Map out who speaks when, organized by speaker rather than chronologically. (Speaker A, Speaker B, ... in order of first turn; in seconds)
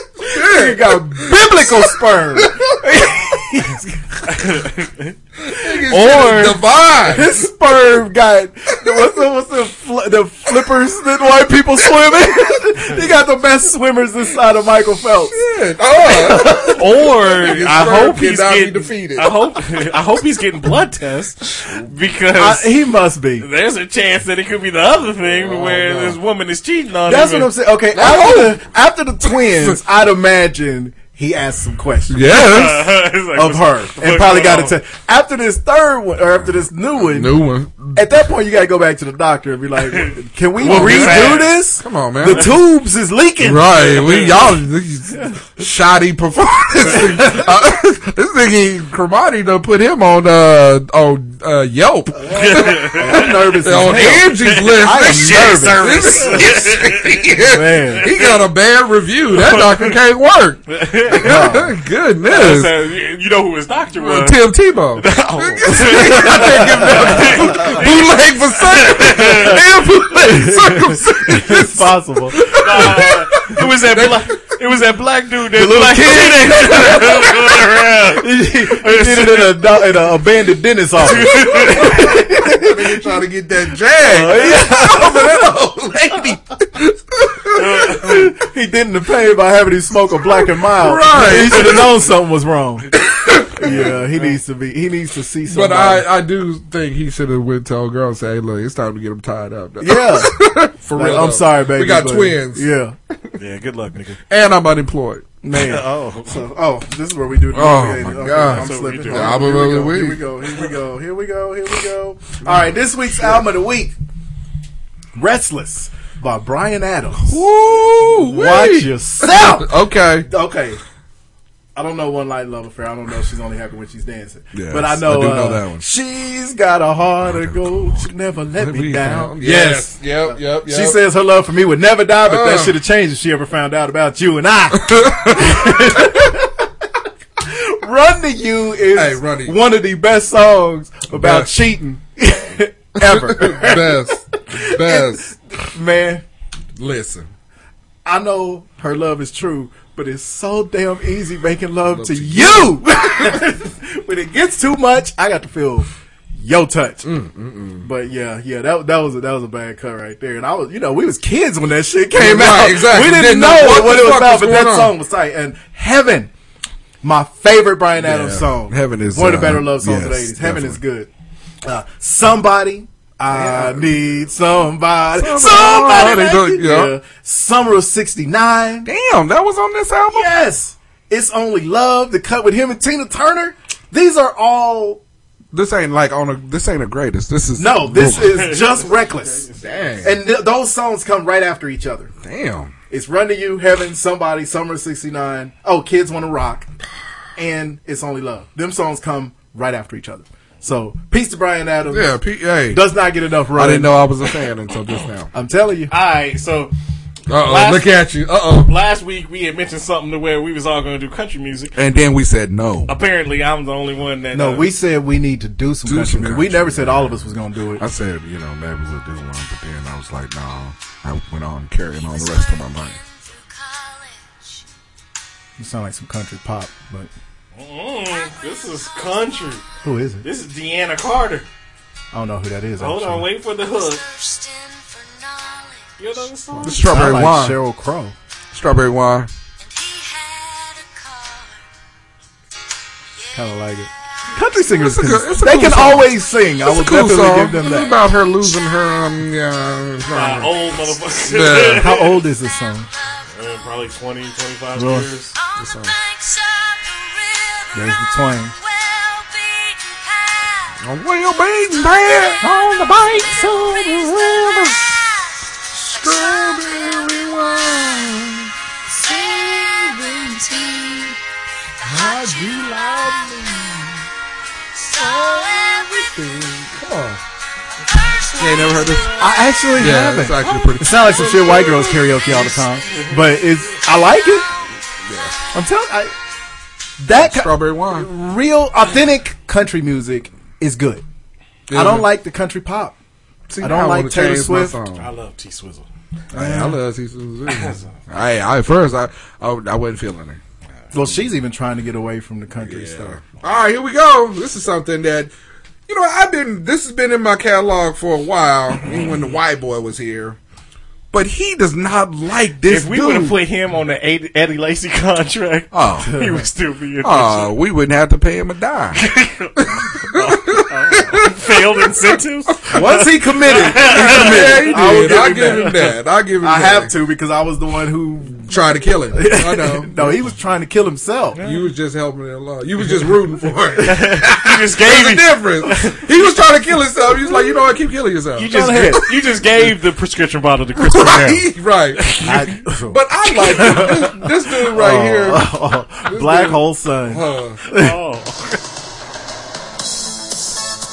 Speaker A: 0.2-2.7, 5.4-7.5, 15.3-19.3, 21.6-21.9, 25.2-26.2, 27.9-28.6, 29.2-29.8, 32.1-33.0, 37.0-38.0, 40.6-42.6, 43.4-62.7, 63.9-74.4, 75.9-77.6, 81.5-88.3, 90.3-92.0, 93.0-94.0, 95.5-103.3, 104.3-105.3, 107.5-110.2, 112.4-113.4, 117.2-120.3, 124.5-125.8, 127.2-128.0, 128.6-131.0, 132.2-132.8, 134.7-136.1, 138.9-139.6, 141.1-141.5, 143.0-145.3, 146.8-147.3, 151.9-153.4, 157.0-157.9, 162.1-164.9, 168.0-170.8, 173.3-174.0, 175.2-176.9, 178.8-180.4, 185.5-188.5, 189.6-190.2, 192.2-192.7, 201.9-202.8, 203.5-205.3, 207.3-208.8, 211.8-212.9, 215.8-223.0, 236.6-237.6, 238.5-239.3, 244.7-251.9, 255.6-256.0, 260.8-262.4, 265.7-268.5, 269.1-270.5, 271.8-274.0, 274.9-277.2, 278.3-282.4, 285.0-285.4, 287.1-288.1, 291.7-292.1, 293.5-295.1, 296.3-300.4, 302.6-305.3, 305.9-310.4, 311.1-313.4, 315.7-316.1, 317.0-319.0, 319.6-321.5, 323.5-326.9, 328.3-330.2, 331.4-339.0, 340.8-345.5, 346.0-347.6
Speaker B: 0.3-4.5, 7.1-15.4, 16.1-16.6, 22.4-23.5, 27.1-32.2, 33.4-37.4, 37.9-43.8, 46.8-47.5, 52.1-56.5, 57.4-58.1, 61.2-61.7, 69.4-72.6, 75.5-77.1, 78.2-83.0, 84.0-85.5, 87.9-93.0, 93.6-96.1, 99.8-100.4, 100.9-103.0, 105.4-114.0, 115.2-117.4, 118.2-120.8, 121.8-136.7, 137.4-146.2, 148.1-157.1, 157.8-166.3, 167.0-171.1, 171.6-178.9, 180.1-185.0, 187.6-189.5, 190.0-192.1, 192.9-196.7, 197.4-202.2, 202.7-204.0, 205.3-205.9, 214.3-217.8, 225.6-227.1, 229.8-230.2, 232.1-233.3, 236.6-238.2, 243.3-247.9, 251.8-252.9, 254.8-255.1, 257.7-258.6, 262.4-264.9, 270.5-271.1, 279.1-284.5, 285.5-286.1, 287.0-291.0, 291.7-293.0, 293.6-294.8, 296.3-296.8, 300.9-303.2, 316.0-316.5, 322.7-325.8, 326.4-328.5, 329.1-331.4, 338.5-339.1, 342.2-348.0
Speaker C: 4.3-5.1, 5.9-6.6, 16.4-22.7, 23.4-27.5, 32.2-34.8, 39.9-41.6, 42.3-42.5, 43.8-44.5, 52.3-57.3, 58.0-58.4, 59.3-60.0, 60.7-61.5, 62.2-69.6, 72.5-79.8, 81.0-82.2, 84.2-84.7, 87.5-88.1, 93.6-94.4, 103.4-104.2, 105.6-106.4, 108.5-109.5, 188.2-190.0, 205.9-206.7, 207.4-208.0, 208.6-211.8, 212.9-214.7, 227.6-229.6, 230.2-231.5, 232.8-234.1, 236.0-236.8, 250.1-252.2, 253.3-255.4, 282.9-283.2, 294.9-295.9, 297.5-298.0, 312.7-317.5, 319.0-325.9, 331.4-331.7, 333.8-336.0, 338.4-342.3, 347.7-348.6